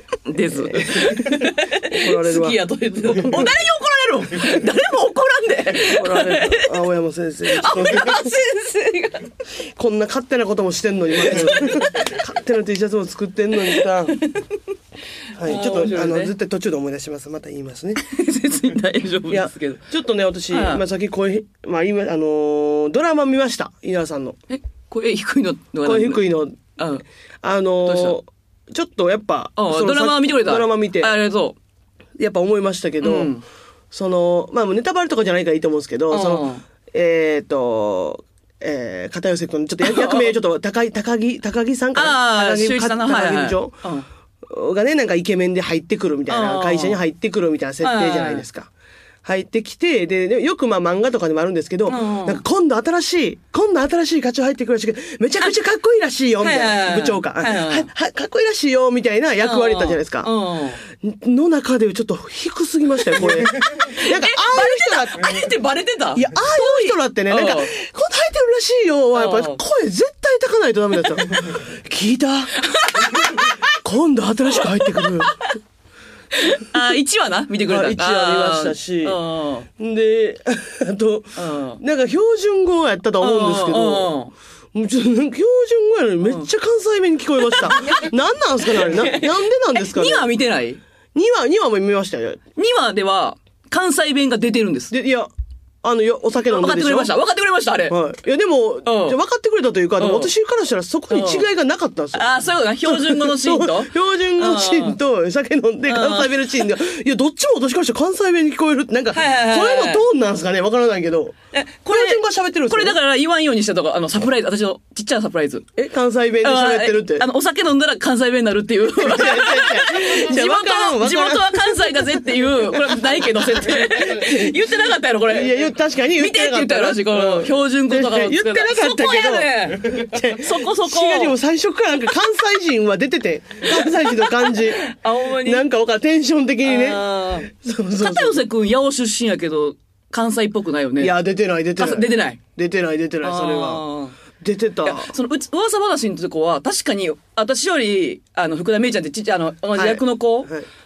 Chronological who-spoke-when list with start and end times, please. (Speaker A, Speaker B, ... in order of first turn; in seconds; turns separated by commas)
Speaker A: 0.3-6.7, Speaker B: 0.5-3.5, Speaker B: 5.9-8.3, Speaker A: 7.5-9.3, Speaker B: 9.8-14.2, Speaker A: 11.2-11.9, Speaker A: 14.2-14.6, Speaker B: 15.3-18.0, Speaker A: 15.4-16.3, Speaker A: 18.0-19.8, Speaker B: 19.3-24.4, Speaker A: 20.5-20.8, Speaker A: 24.5-27.0, Speaker B: 25.8-26.6, Speaker B: 27.4-31.1, Speaker A: 27.8-28.1, Speaker A: 29.6-31.6, Speaker B: 32.2-33.3, Speaker A: 33.0-33.4, Speaker B: 33.9-43.8, Speaker A: 36.1-36.6, Speaker A: 39.8-40.3, Speaker A: 41.9-44.1, Speaker B: 44.5-48.7, Speaker A: 46.3-47.0, Speaker A: 47.8-48.4, Speaker B: 49.2-60.3, Speaker A: 51.9-52.4, Speaker A: 56.4-57.9, Speaker A: 59.4-60.8, Speaker B: 60.9-65.5, Speaker A: 63.2-67.7, Speaker B: 66.1-75.5, Speaker A: 69.1-69.6, Speaker A: 72.6-73.7, Speaker A: 74.6-75.4, Speaker A: 76.3-79.7, Speaker B: 77.7-79.2, Speaker B: 79.8-84.1, Speaker A: 81.3-81.8, Speaker A: 83.2-84.3, Speaker B: 84.7-90.2, Speaker A: 86.2-86.5, Speaker A: 87.5-88.1, Speaker A: 88.7-90.8, Speaker B: 91.1-92.4, Speaker A: 92.6-94.9, Speaker B: 94.9-95.3, Speaker B: 95.8-97.1, Speaker A: 96.5-97.9, Speaker B: 97.9-102.2, Speaker A: 98.8-99.2, Speaker A: 100.0-100.3, Speaker A: 101.1-101.5, Speaker A: 102.1-105.0, Speaker B: 102.8-111.3, Speaker A: 105.9-106.6, Speaker A: 109.1-110.0, Speaker A: 111.5-115.7, Speaker B: 111.9-113.0, Speaker B: 115.8-117.2, Speaker A: 116.4-131.3, Speaker B: 119.0-124.4, Speaker B: 125.3-134.9, Speaker A: 133.7-135.6, Speaker B: 135.4-138.4, Speaker A: 136.6-141.1, Speaker B: 141.0-143.8, Speaker A: 141.8-142.4, Speaker A: 143.2-144.2, Speaker B: 144.4-145.1, Speaker A: 144.8-150.5, Speaker B: 149.8-150.7